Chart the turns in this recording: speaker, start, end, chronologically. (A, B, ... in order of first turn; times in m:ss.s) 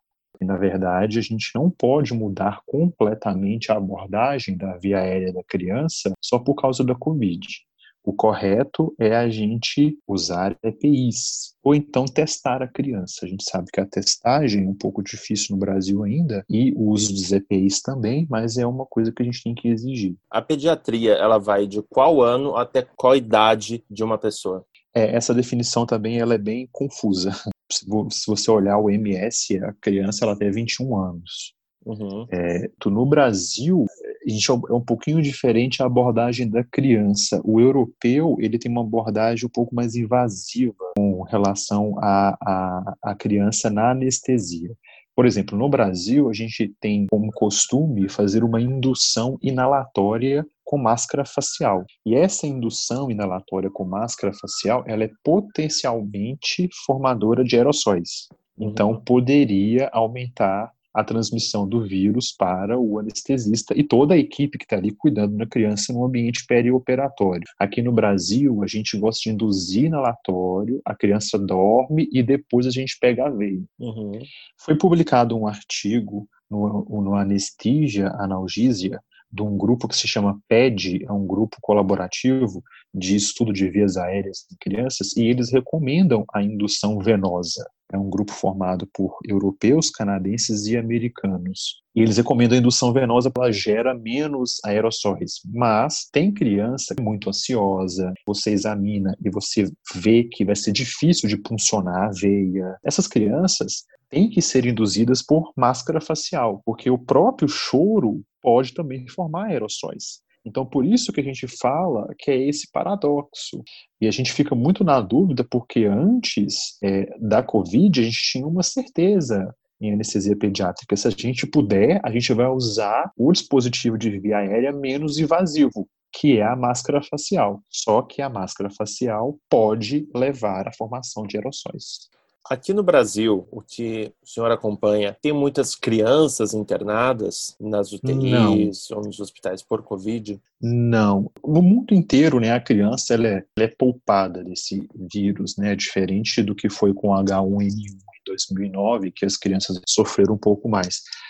0:00.4-0:20.2 A
0:20.3-0:24.7 B
0:24.9-0:31.5 A
0:31.9-0:32.3 B
0:32.3-1:13.7 A
0:58.6-0:59.0 B
1:13.8-1:14.3 B
1:14.6-2:12.1 A
2:12.5-2:20.4 B
2:18.0-2:18.7 A
2:20.6-2:31.1 A